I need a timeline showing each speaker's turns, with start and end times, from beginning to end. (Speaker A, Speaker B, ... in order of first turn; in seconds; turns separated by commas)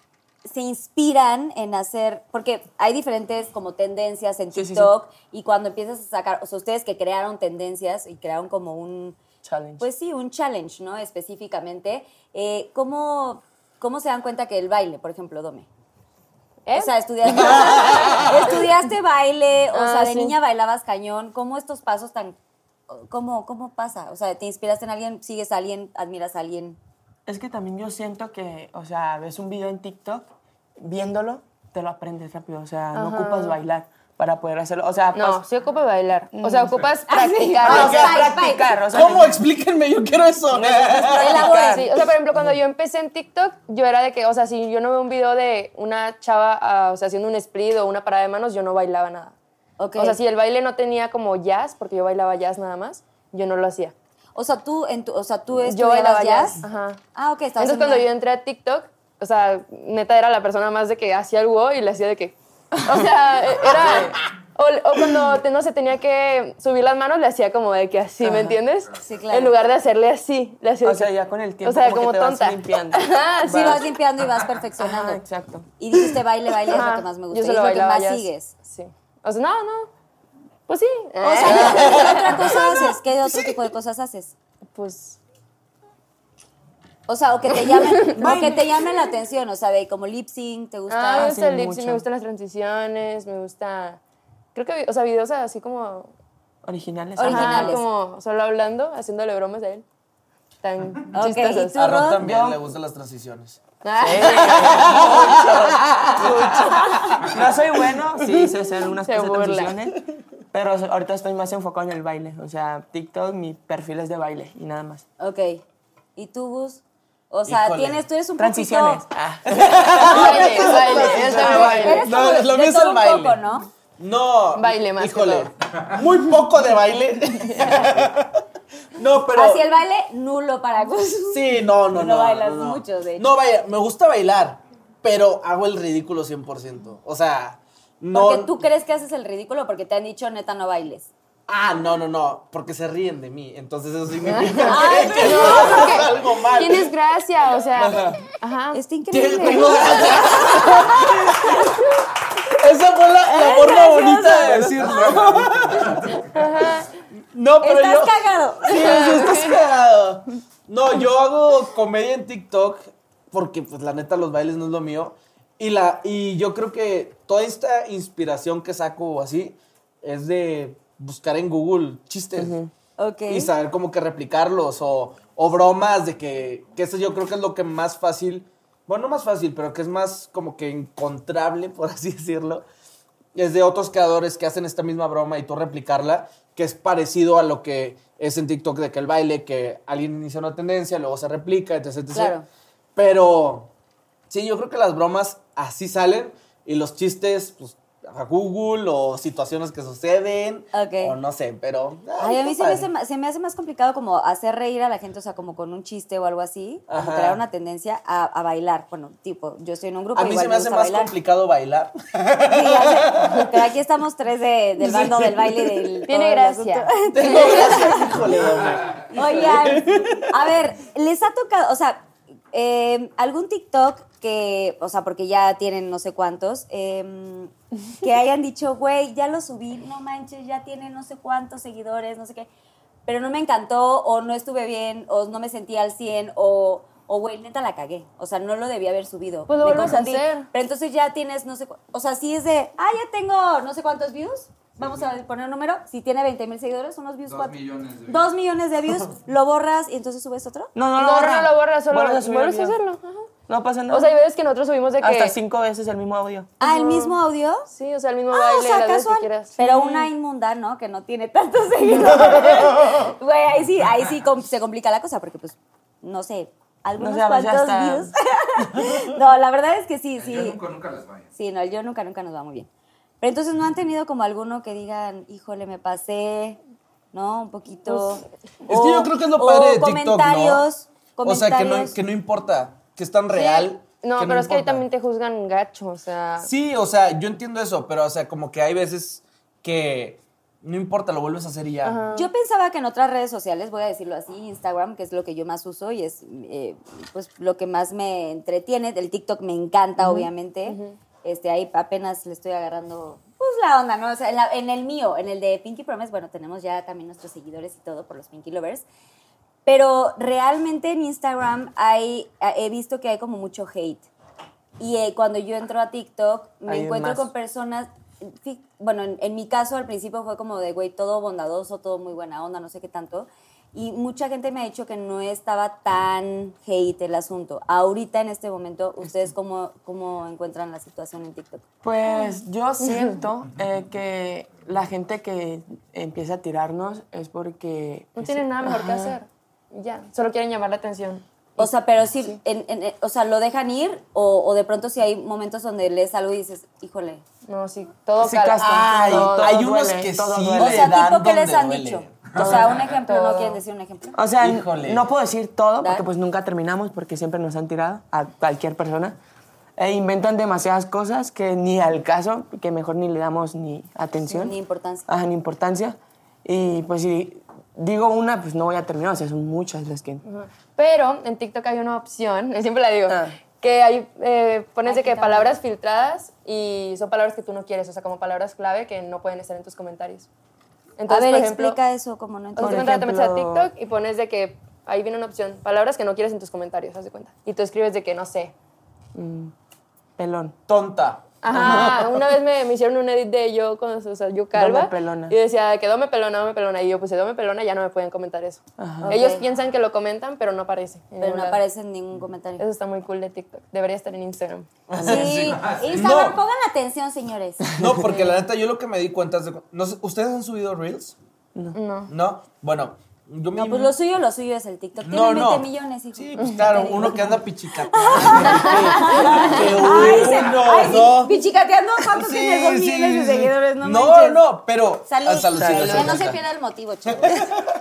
Speaker A: 0.4-9.2, Speaker B: 4.5-4.9, Speaker B: 9.4-9.8, Speaker A: 9.8-15.7, Speaker C: 16.6-16.9, Speaker A: 16.7-22.4, Speaker C: 19.7-20.4, Speaker A: 22.9-26.8, Speaker B: 27.2-35.4, Speaker C: 32.9-33.6, Speaker C: 35.1-38.2, Speaker B: 36.3-36.9, Speaker A: 37.1-38.8, Speaker B: 37.6-39.4, Speaker D: 37.6-38.2, Speaker D: 38.9-41.4, Speaker B: 40.5-42.5, Speaker A: 41.2-41.9, Speaker C: 41.7-49.4, Speaker A: 49.8-50.2, Speaker C: 50.0-53.9, Speaker A: 54.3-56.6, Speaker C: 55.7-57.0, Speaker A: 57.1-58.1, Speaker C: 57.6-71.1, Speaker B: 63.7-64.2, Speaker B: 68.2-68.6, Speaker A: 69.0-69.5, Speaker B: 70.8-73.8, Speaker C: 71.6-73.8, Speaker A: 73.4-75.2, Speaker B: 74.8-75.7, Speaker A: 75.8-78.5, Speaker C: 76.7-79.9, Speaker C: 80.7-82.9, Speaker A: 81.2-84.3, Speaker C: 84.7-85.2, Speaker A: 87.1-91.3, Speaker C: 87.7-88.6, Speaker B: 88.2-88.6, Speaker C: 90.9-94.0, Speaker B: 91.1-92.0, Speaker C: 94.5-96.1, Speaker B: 96.6-97.8, Speaker A: 97.2-97.8, Speaker C: 97.2-99.8, Speaker C: 100.6-101.7, Speaker A: 101.1-102.2, Speaker D: 101.7-103.6, Speaker B: 102.2-102.6, Speaker C: 103.8-105.5, Speaker B: 104.0-110.0, Speaker D: 104.5-107.2, Speaker C: 109.0-109.7, Speaker B: 110.5-115.0, Speaker A: 115.2-115.6, Speaker A: 116.2-119.0, Speaker D: 117.5-118.0, Speaker B: 118.4-122.0, Speaker D: 119.5-123.4, Speaker C: 120.0-122.0, Speaker A: 121.4-123.7, Speaker D: 124.0-128.3, Speaker C: 124.5-125.5, Speaker D: 128.9-129.7, Speaker A: 129.3-133.3, Speaker D: 131.3-138.5, Speaker A: 138.1-141.1, Speaker D: 141.5-146.9, Speaker C: 144.2-148.8, Speaker A: 144.6-146.0, Speaker D: 147.7-148.2, Speaker A: 148.7-151.7, Speaker D: 149.1-151.7, Speaker D: 152.5-156.1, Speaker A: 153.2-155.2, Speaker C: 156.2-156.9, Speaker D: 157.3-172.6, Speaker A: 157.6-159.2, Speaker C: 158.8-159.6, Speaker B: 172.3-172.7, Speaker A: 173.0-173.5, Speaker D: 173.3-182.6, Speaker D: 183.3-192.4, Speaker A: 192.1-192.4, Speaker D: 192.9-193.7, Speaker D: 194.3-202.9, Speaker A: 200.7-201.2, Speaker A: 202.2-211.1, Speaker D: 206.9-207.4, Speaker D: 210.1-213.5, Speaker A: 212.4-218.1, Speaker D: 214.8-215.7, Speaker C: 216.1-216.9, Speaker D: 217.1-220.3, Speaker A: 219.1-232.5, Speaker A: 233.1-250.7, Speaker C: 239.5-240.5, Speaker E: 247.3-248.3, Speaker B: 250.7-252.8, Speaker C: 250.9-253.3, Speaker B: 253.5-254.2, Speaker C: 253.9-255.3, Speaker B: 255.0-256.5, Speaker A: 256.6-257.7, Speaker C: 256.6-260.1, Speaker A: 258.3-270.6, Speaker B: 267.0-268.1, Speaker E: 270.2-271.3, Speaker A: 271.3-272.7, Speaker A: 273.2-276.6, Speaker A: 277.1-281.9, Speaker C: 277.9-278.2, Speaker D: 278.7-280.6, Speaker D: 281.2-284.9, Speaker C: 283.3-286.5, Speaker D: 286.4-292.0, Speaker C: 291.8-292.3, Speaker A: 292.1-308.8, Speaker C: 300.0-301.0, Speaker A: 309.6-314.1, Speaker A: 314.8-331.6, Speaker B: 316.7-317.3, Speaker B: 331.8-339.2, Speaker C: 332.8-333.2, Speaker C: 338.2-341.7, Speaker A: 341.6-347.2, Speaker C: 347.4-349.6, Speaker B: 348.2-350.9, Speaker D: 348.6-352.7, Speaker A: 350.6-354.2, Speaker C: 352.4-353.6, Speaker B: 354.1-359.2, Speaker D: 354.4-355.1, Speaker A: 355.8-356.1, Speaker B: 359.8-364.5, Speaker A: 364.2-365.1, Speaker B: 365.1-370.2, Speaker C: 370.2-380.3, Speaker B: 373.1-373.3, Speaker A: 374.8-375.6, Speaker C: 381.0-381.8, Speaker A: 381.1-382.9, Speaker C: 382.5-388.5, Speaker B: 382.6-383.7, Speaker B: 389.1-389.5, Speaker B: 390.2-390.6, Speaker D: 390.7-392.2, Speaker C: 391.4-401.6, Speaker B: 394.5-395.4, Speaker B: 398.8-399.1, Speaker A: 399.0-399.4, Speaker A: 401.2-402.6, Speaker C: 402.6-404.7, Speaker D: 404.9-406.4, Speaker B: 404.9-405.4, Speaker A: 405.0-407.7, Speaker D: 407.8-411.1, Speaker B: 407.8-408.1, Speaker C: 411.7-412.1, Speaker D: 412.1-413.9, Speaker A: 413.5-424.4, Speaker D: 415.0-421.3, Speaker C: 416.4-416.8, Speaker C: 418.4-420.2, Speaker D: 422.1-426.4, Speaker A: 425.1-427.5, Speaker B: 425.5-426.2, Speaker D: 427.1-427.6